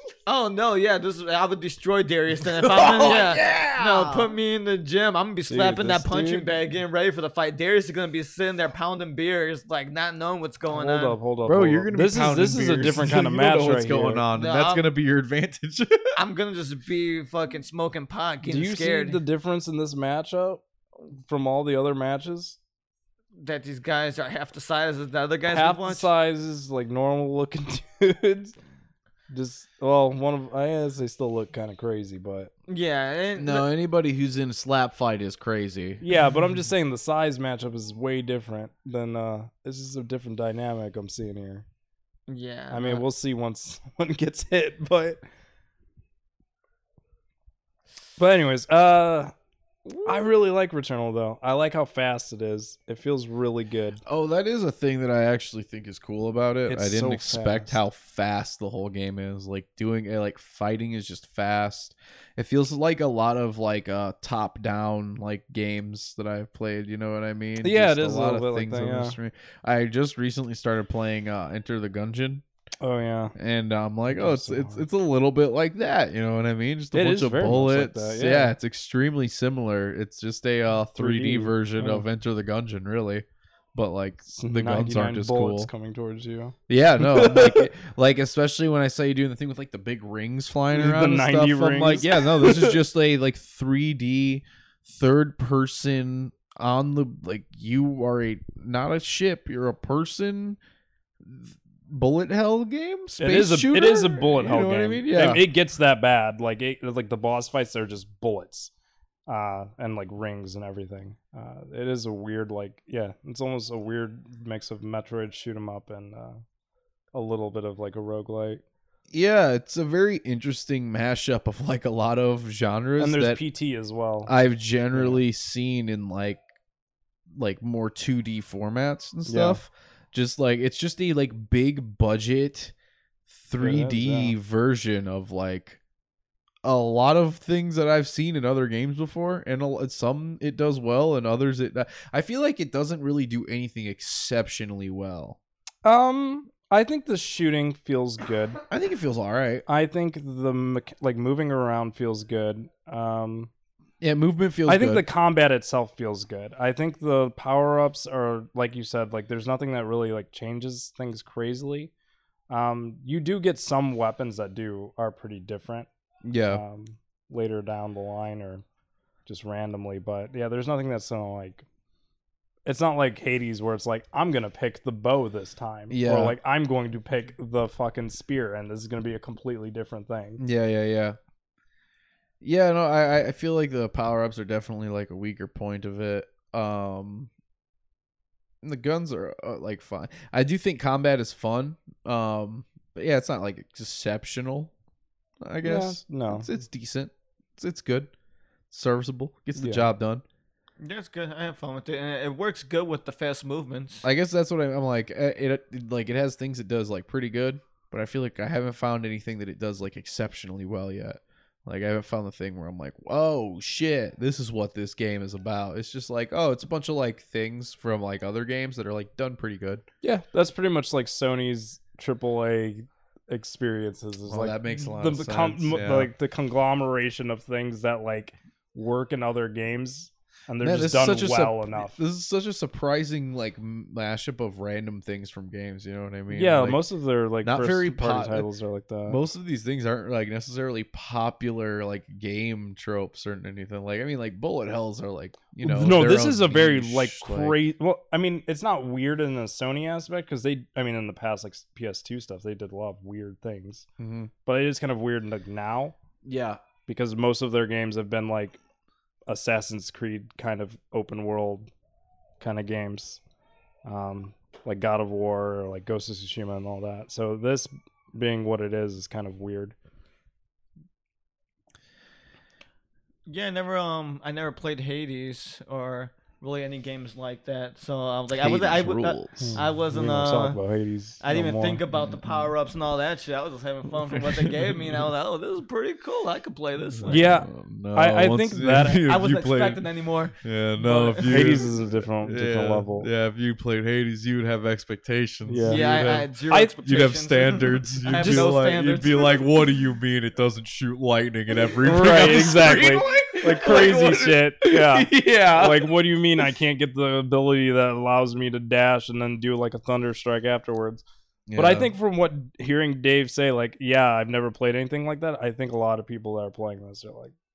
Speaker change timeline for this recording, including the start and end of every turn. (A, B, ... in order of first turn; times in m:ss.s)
0:00.2-0:11.2 A
0:02.6-0:04.3 B
0:05.5-0:06.5 C
0:10.7-0:14.2 C
0:11.4-0:16.1 B
0:14.3-0:14.8 A
0:16.2-0:19.2 A
0:18.4-0:20.6 C
0:21.2-0:22.6 C
0:23.4-0:26.1 A
0:25.5-0:28.6 C
0:29.3-0:32.5 C
0:32.7-0:33.6 A
0:33.4-0:36.0 B
0:36.0-0:41.6 C
0:42.3-0:43.0 A
0:42.7-0:45.2 C
0:48.2-0:49.3 C
0:49.9-0:54.0 C
0:54.0-1:12.4 B
0:56.7-0:57.7 C
1:07.6-1:09.2 C
1:12.8-1:13.3 C
1:13.4-1:25.7 B
1:14.1-1:14.8 C
1:16.9-1:18.5 C
1:20.9-1:22.0 C
1:24.3-1:27.7 C
1:26.7-1:40.6 B
1:30.7-1:32.8 C
1:41.2-1:45.4 B
1:43.2-1:48.7 C
1:49.3-1:56.4 C
1:57.1-1:58.6 C
1:59.1-2:03.4 B
2:03.0-2:04.3 C
2:04.2-2:06.4 B
2:04.9-2:05.2 C
2:07.3-2:12.7 B
2:09.2-2:09.6 C
2:13.3-2:15.8 B
2:13.6-2:14.3 C
2:16.6-2:25.4 B
2:25.8-2:28.6 C
2:28.7-2:29.6 B
2:29.7-2:33.5 C
2:34.0-2:35.0 B
2:34.7-2:41.9 C
2:42.5-2:45.9 C
2:46.2-2:46.6 B
2:46.5-2:48.6 C
2:49.3-2:51.6 C
2:52.6-3:00.4 C
2:55.9-2:56.4 B
3:00.4-3:01.2 B
3:02.4-3:07.3 B
3:08.6-3:14.7 B
3:15.4-3:18.1 B
3:15.6-3:16.5 C
3:18.7-3:20.2 B
3:19.6-3:19.9 C
3:20.8-3:24.0 A
3:24.0-3:39.8 B
3:40.0-3:52.0 C
3:44.3-3:46.1 B
3:50.6-3:56.8 B
3:56.3-3:59.2 C
3:57.4-3:58.5 B
3:59.1-4:07.6 B
4:05.6-4:13.8 C
4:14.0-4:14.3 B
4:14.4-4:15.9 C
4:16.2-4:16.6 B
4:16.9-4:18.6 C
4:19.3-4:21.7 C
4:22.4-4:23.2 C
4:23.8-4:29.7 C
4:33.2-4:40.6 A
4:38.4-4:39.6 B
4:39.4-4:41.8 C
4:41.2-4:47.3 A
4:47.0-4:49.8 B
4:47.1-4:49.0 C
4:49.1-4:51.6 A
4:50.4-4:56.3 B
4:51.2-4:53.1 C
4:55.5-4:55.9 C
4:55.6-4:59.4 A
4:56.8-5:05.9 B
4:58.0-4:58.5 C
5:01.8-5:11.0 C
5:11.5-5:11.9 B
5:11.6-5:17.3 C